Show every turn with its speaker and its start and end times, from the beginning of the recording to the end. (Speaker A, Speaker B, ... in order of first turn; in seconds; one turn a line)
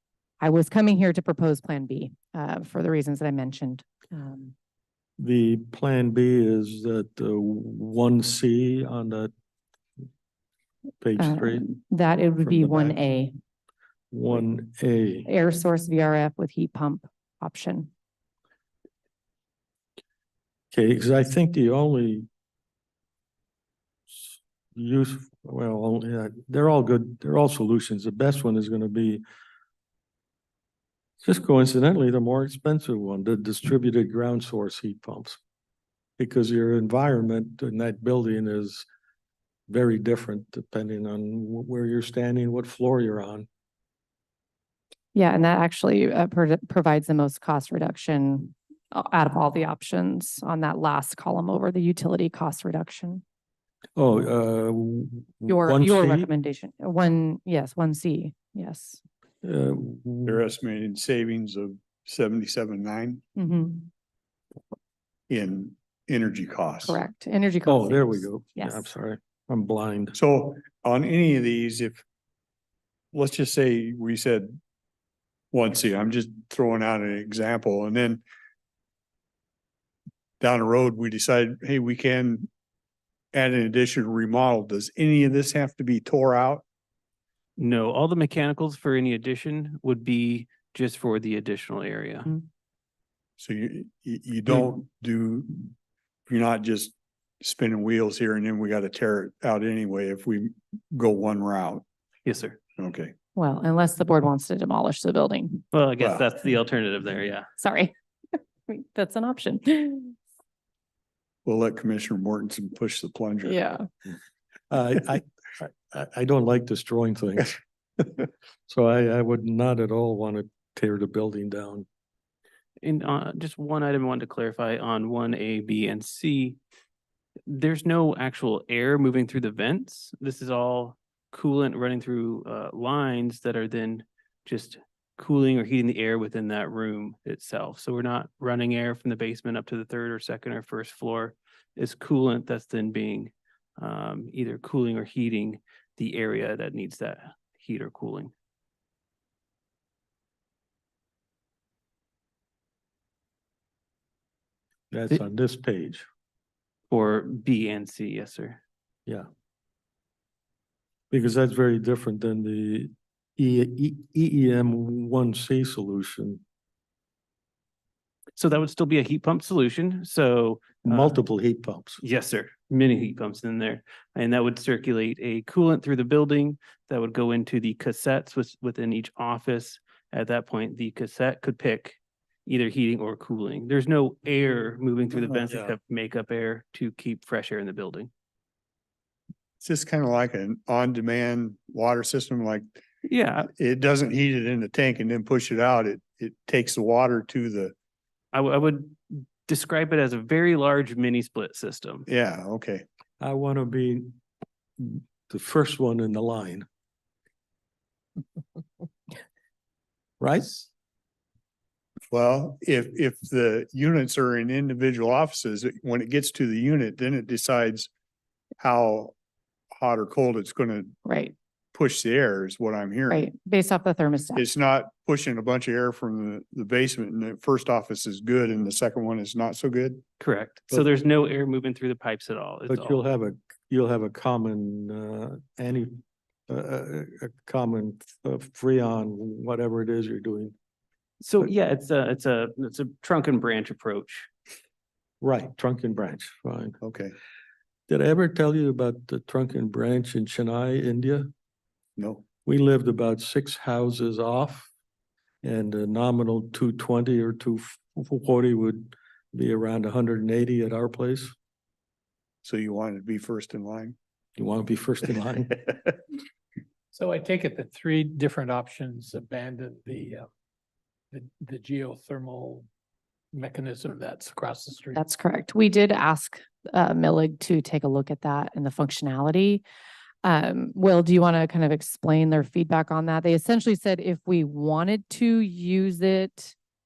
Speaker A: 0.4-4.5
Speaker B: 5.2-9.3
Speaker B: 11.0-11.7
Speaker A: 11.2-13.3
Speaker B: 12.4-13.0
Speaker B: 14.1-15.3
Speaker A: 15.2-17.9
Speaker B: 20.7-22.3
Speaker B: 24.1-29.2
Speaker B: 31.2-35.4
Speaker B: 36.2-38.8
Speaker B: 39.7-43.5
Speaker A: 45.1-53.2
Speaker B: 54.0-56.3
Speaker A: 55.5-59.0
Speaker B: 59.4-60.4
Speaker C: 60.2-63.2
Speaker A: 63.4-63.9
Speaker C: 65.3-67.0
Speaker A: 66.8-68.8
Speaker B: 67.7-70.2
Speaker C: 70.1-72.0
Speaker C: 73.1-74.6
Speaker C: 75.5-78.2
Speaker C: 80.4-82.5
Speaker C: 83.3-86.6
Speaker D: 87.6-92.3
Speaker C: 93.4-95.7
Speaker C: 96.3-101.8
Speaker D: 102.2-102.6
Speaker C: 102.8-103.1
Speaker A: 103.3-105.6
Speaker D: 105.7-107.5
Speaker C: 106.0-106.3
Speaker A: 107.6-110.1
Speaker C: 111.4-113.6
Speaker A: 113.5-113.8
Speaker B: 114.7-121.9
Speaker D: 122.8-126.6
Speaker D: 127.5-148.3
Speaker B: 154.9-156.1
Speaker D: 156.9-158.6
Speaker B: 161.1-166.4
Speaker D: 168.4-171.2
Speaker B: 170.8-172.0
Speaker D: 172.0-188.1
Speaker C: 189.6-192.8
Speaker D: 193.0-193.5
Speaker C: 193.5-197.7
Speaker D: 198.3-202.1
Speaker C: 202.1-202.8
Speaker B: 203.2-204.2
Speaker B: 204.8-206.7
Speaker B: 210.2-210.7
Speaker C: 212.1-217.9
Speaker C: 218.6-219.1
Speaker C: 219.7-220.9
Speaker A: 221.0-221.3
Speaker C: 221.7-223.2
Speaker A: 223.1-224.4
Speaker C: 224.3-230.0
Speaker D: 230.2-233.0
Speaker B: 232.7-240.5
Speaker D: 241.2-244.3
Speaker B: 245.2-246.8
Speaker C: 246.8-247.1
Speaker B: 247.9-251.3
Speaker C: 252.0-252.2
Speaker B: 252.4-254.7
Speaker B: 255.4-261.3
Speaker C: 262.4-263.9
Speaker B: 264.4-265.7
Speaker E: 266.9-270.2
Speaker E: 271.1-272.6
Speaker E: 273.3-275.0
Speaker A: 274.9-279.6
Speaker A: 280.2-286.5